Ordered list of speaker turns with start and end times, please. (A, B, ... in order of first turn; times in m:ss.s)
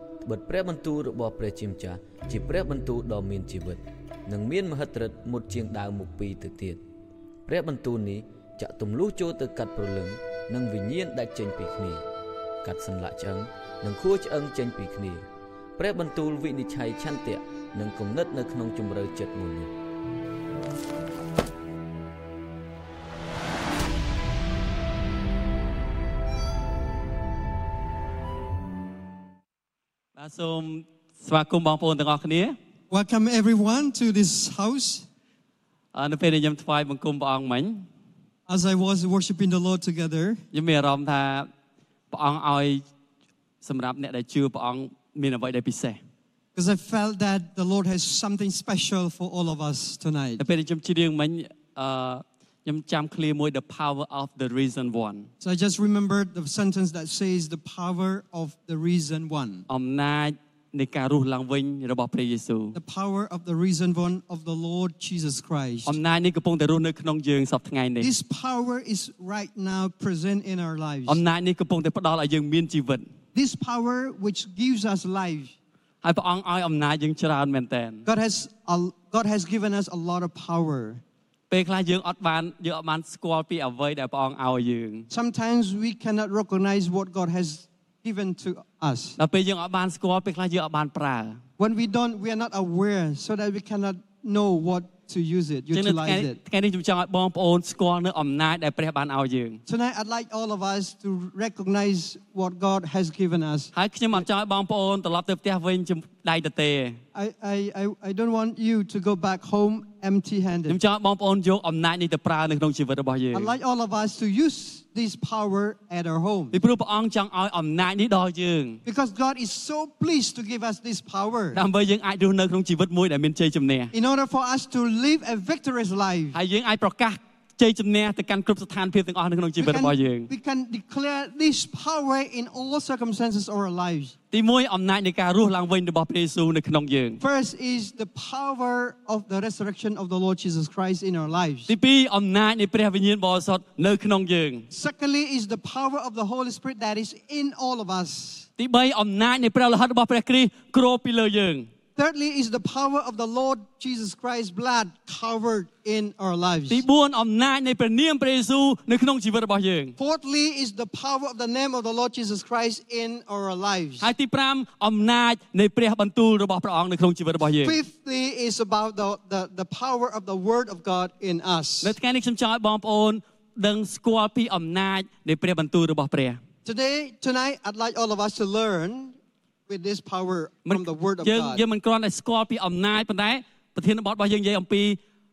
0:00.2-0:06.8 A
0:07.4-0:12.0 A
0:12.6-0:15.2 A
0:15.8-0:19.7 A
0:30.2-0:32.6 B
0:32.9-0:35.0 C
0:35.9-0:37.8 B
0:38.5-0:40.4 C
0:40.5-0:41.5 B
0:42.1-0:42.8 B
0:43.6-0:46.0 B
0:46.6-0:50.4 C
0:50.4-0:55.3 B
0:55.4-0:59.6 C
0:59.7-1:02.8 B
1:02.7-1:06.0 C
1:05.8-1:08.1 B
1:08.0-1:11.2 C
1:11.1-1:13.1 B
1:13.3-1:15.5 C
1:16.0-1:18.0 B
1:18.0-1:21.0 C
1:21.5-1:25.1 B
1:25.1-1:29.2 C
1:29.2-1:31.4 B
1:31.6-1:36.4 C
1:35.7-1:39.6 B
1:39.7-1:44.2 C
1:43.7-1:47.0 B
1:47.1-1:50.8 C
1:50.7-1:53.5 B
1:53.3-1:56.5 C
1:56.5-1:58.8 B
1:58.8-2:01.6 C
2:01.5-2:03.9 B
2:03.9-2:06.4 C
2:06.3-2:10.3 B
2:09.6-2:14.1 C
2:14.3-2:17.2 B
2:17.2-2:21.7 C
2:21.7-2:24.7 B
2:24.7-2:28.5 C
2:28.6-2:31.7 B
2:32.0-2:36.8 C
2:36.7-2:40.0 B
2:40.0-2:44.1 C
2:44.0-2:47.8 B
2:47.6-2:51.9 C
2:51.8-2:56.4 B
2:56.6-3:01.6 C
3:00.6-3:05.0 B